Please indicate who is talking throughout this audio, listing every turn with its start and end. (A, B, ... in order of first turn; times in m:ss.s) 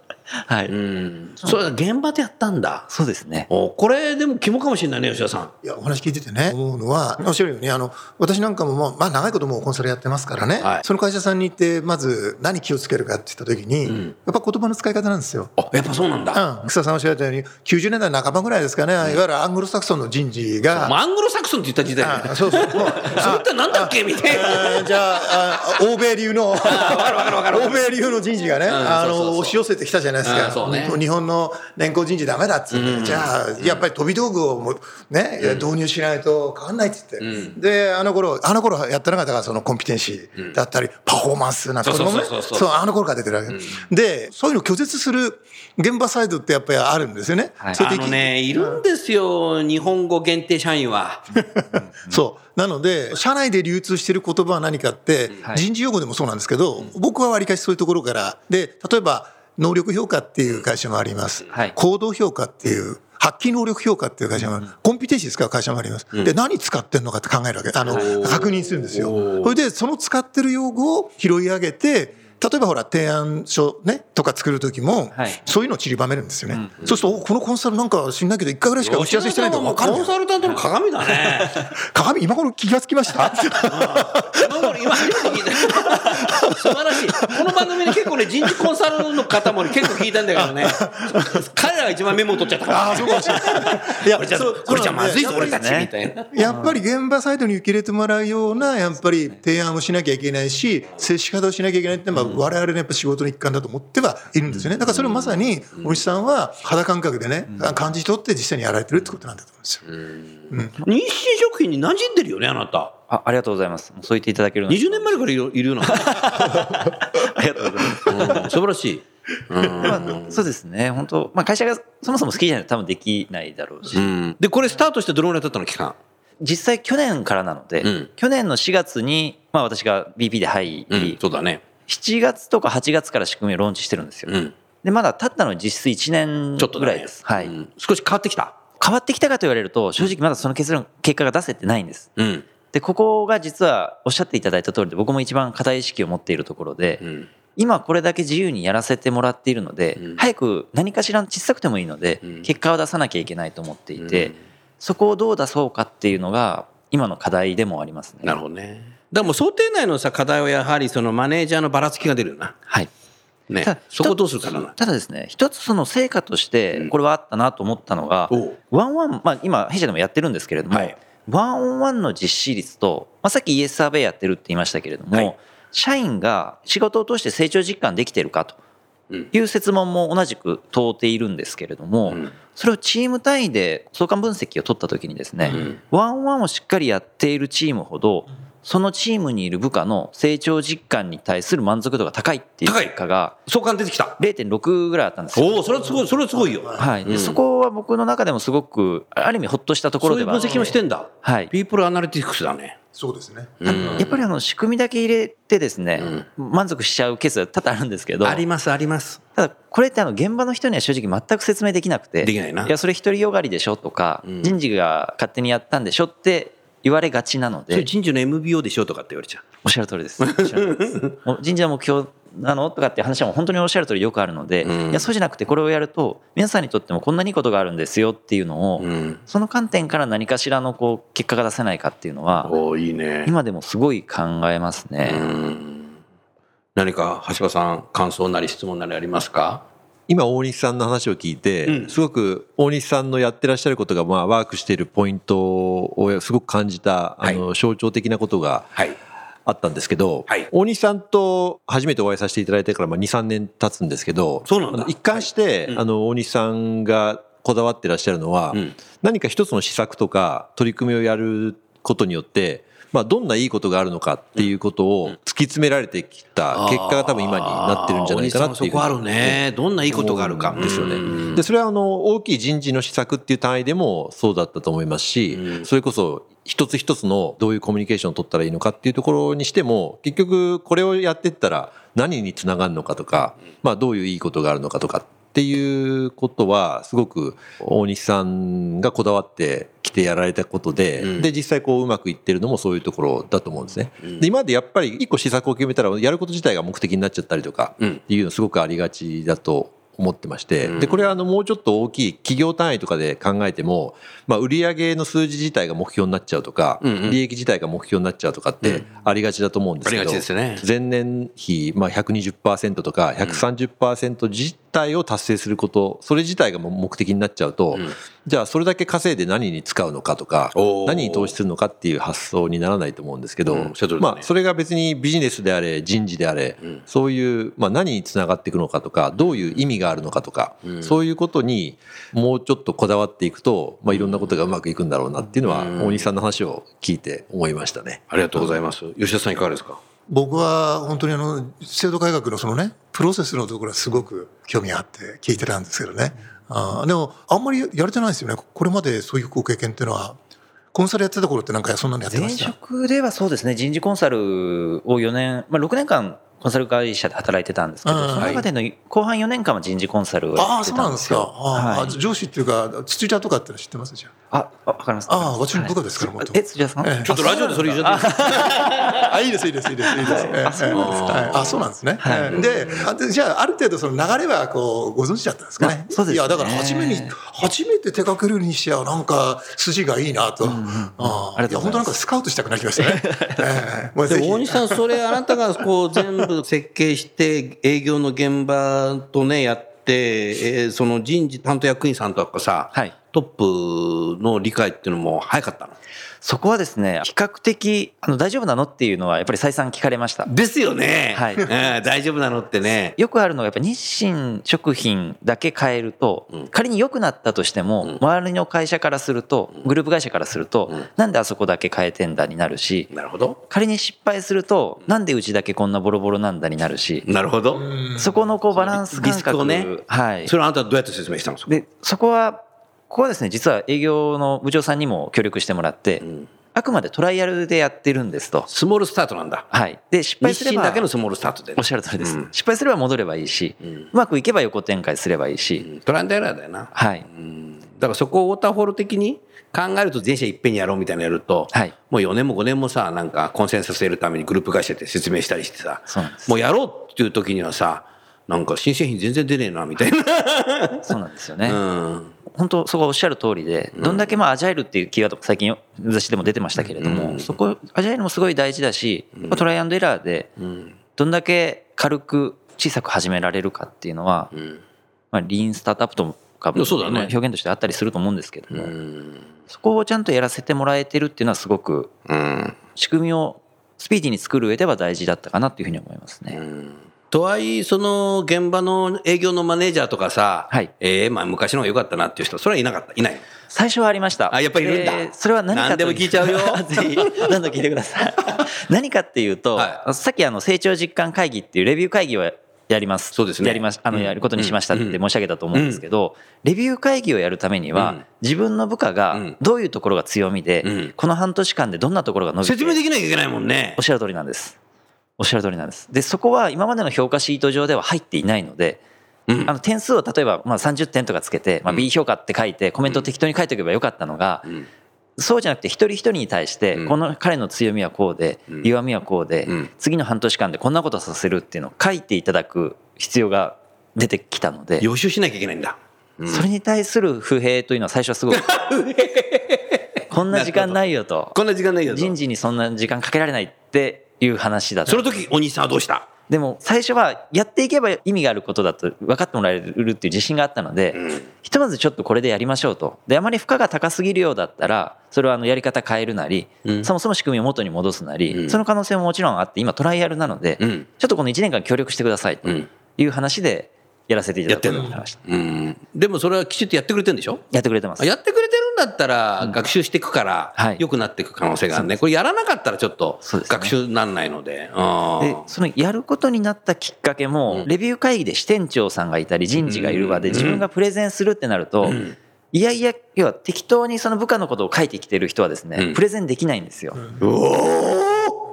0:00.3-0:00.7 A
0:00.7-0:02.9 B
0:02.9-0:03.5 A
0:03.5-0:05.5 B
0:05.6-0:15.5 C
0:10.6-0:10.8 B
0:13.9-0:14.1 B
0:15.6-0:16.4 B
0:16.3-0:21.0 C
0:20.7-0:25.6 B
0:22.0-0:48.8 C
0:26.6-0:27.9 B
0:28.6-0:29.6 B
0:30.2-0:31.0 B
0:32.7-0:33.8 B
0:35.4-0:35.7 B
0:37.2-0:37.6 B
0:41.8-0:42.8 B
0:43.5-0:43.8 B
0:47.8-0:51.2 B
0:51.4-1:20.1 C
0:51.8-0:52.2 A
1:07.8-1:09.6 B
1:15.1-1:15.4 A
1:16.5-1:16.8 A
1:18.8-1:21.6 B
1:21.8-1:28.7 C
1:23.5-1:36.3 B
1:29.3-1:31.4 C
1:32.7-1:35.6 C
1:34.7-1:35.9 A
1:36.3-1:49.8 C
1:36.4-1:36.8 A
1:44.9-1:46.0 B
1:47.5-1:47.8 A
1:49.9-1:50.2 B
1:50.5-1:50.7 C
1:50.8-1:52.9 B
1:53.1-1:55.2 A
1:54.7-1:56.9 B
1:55.9-1:58.5 A
1:57.9-2:00.4 B
1:59.8-2:04.1 A
2:03.9-2:06.0 B
2:06.4-2:11.2 A
2:07.8-2:08.1 B
2:10.9-2:11.6 B
2:11.9-2:17.5 A
2:14.3-2:14.5 B
2:16.6-2:18.6 B
2:18.8-2:22.1 A
2:22.2-2:22.4 B
2:22.7-2:27.0 A
2:27.0-2:27.3 B
2:27.6-2:38.4 A
2:30.0-2:30.2 B
2:34.0-2:34.4 B
2:38.2-2:42.6 B
2:43.5-2:44.7 B
2:43.6-2:58.6 A
2:48.3-2:48.6 B
2:59.3-3:13.4 A
3:02.1-3:02.3 B
3:05.4-3:05.8 B
3:12.6-3:14.2 B
3:14.2-3:15.7 A
3:15.4-3:17.4 B
3:16.4-3:16.9 C
3:16.8-3:21.5 A
3:20.0-3:22.8 B
3:22.9-3:23.6 C
3:23.6-3:24.2 B
3:23.6-3:28.4 A
3:26.0-3:26.2 B
3:28.2-3:29.2 B
3:29.4-3:37.9 A
3:32.2-3:32.7 B
3:34.2-3:34.6 B
3:37.7-3:39.5 B
3:39.6-3:52.5 A
3:40.2-3:41.1 B
3:44.6-3:45.1 B
3:48.8-3:49.2 B
3:52.4-3:53.3 B
3:53.2-3:55.3 A
3:55.0-3:55.9 B
3:56.8-3:59.6 B
4:00.1-4:08.8 D
4:01.6-4:01.9 B
4:09.4-5:38.6 D
4:14.5-4:15.8 B
4:26.5-4:31.4 B
4:35.3-4:35.6 B
4:51.0-4:51.3 B
5:00.6-5:01.1 B
5:06.8-5:07.2 B
5:09.8-5:10.6 B
5:20.6-5:21.4 B
5:23.5-5:24.3 B
5:29.3-5:29.6 B
5:30.6-5:30.9 B
5:33.9-5:34.3 B
5:35.4-5:36.1 B
5:38.1-5:39.8 B
5:40.1-5:50.2 C
5:50.7-5:52.5 C
5:52.1-6:02.0 A
5:57.9-5:58.4 C
5:58.2-5:58.4 B
6:00.4-6:04.1 C
6:04.3-6:09.0 A
6:05.1-6:25.2 C
6:07.1-6:09.1 B
6:10.0-6:11.4 A
6:10.0-6:11.7 B
6:12.0-6:12.4 A
6:12.3-6:12.9 B
6:15.6-6:17.1 A
6:20.4-6:22.0 A
6:22.8-6:23.6 A
6:24.1-6:35.8 B
6:36.2-6:40.3 A
6:40.2-6:43.0 B
6:41.1-6:41.5 A
6:43.0-6:52.9 A
6:52.9-6:53.4 B
6:53.5-6:57.1 A
6:57.0-6:57.9 B
6:58.0-7:00.3 A
6:58.5-7:01.6 B
7:01.5-7:08.5 A
7:06.0-7:06.3 B
7:08.5-7:09.5 B
7:09.5-7:10.9 A
7:10.2-7:12.3 B
7:11.6-7:15.7 A
7:15.6-7:30.8 B
7:16.7-7:17.1 A
7:25.9-7:26.4 A
7:30.8-7:31.6 A
7:31.5-7:32.1 B
7:32.3-7:40.3 A
7:33.8-7:34.1 B
7:36.6-7:37.3 B
7:39.2-7:39.4 B
7:40.4-7:40.7 B
7:41.0-7:44.3 A
7:44.3-7:44.6 B
7:45.1-7:48.7 A
7:46.6-7:47.1 B
7:48.5-7:49.2 B
7:49.5-7:51.9 A
7:52.1-7:52.6 B
7:52.7-7:56.4 A
7:56.3-8:03.2 B
8:03.5-8:22.8 A
8:04.3-8:07.4 B
8:13.1-8:15.0 B
8:15.5-8:15.8 B
8:17.7-8:18.0 B
8:20.6-8:20.9 B
8:22.4-8:23.8 B
8:23.8-8:24.6 A
8:25.2-8:28.8 A
8:29.3-8:29.5 B
8:29.4-8:34.5 A
8:35.2-8:44.9 A
8:44.8-8:46.5 B
8:46.3-8:48.7 A
8:48.3-8:50.8 B
8:50.1-8:51.4 A
8:51.3-8:52.1 B
8:51.9-8:55.2 A
8:54.9-8:56.1 B
8:56.3-9:15.2 A
9:01.0-9:01.2 B
9:06.6-9:06.9 B
9:08.3-9:08.6 B
9:10.6-9:10.9 B
9:14.5-9:17.4 B
9:17.5-9:18.1 A
9:18.0-9:25.4 B
9:20.6-9:20.8 A
9:23.2-9:23.7 A
9:25.2-9:32.0 A
9:29.6-9:30.6 B
9:31.8-9:32.2 B
9:32.5-9:37.0 A
9:37.2-9:38.4 B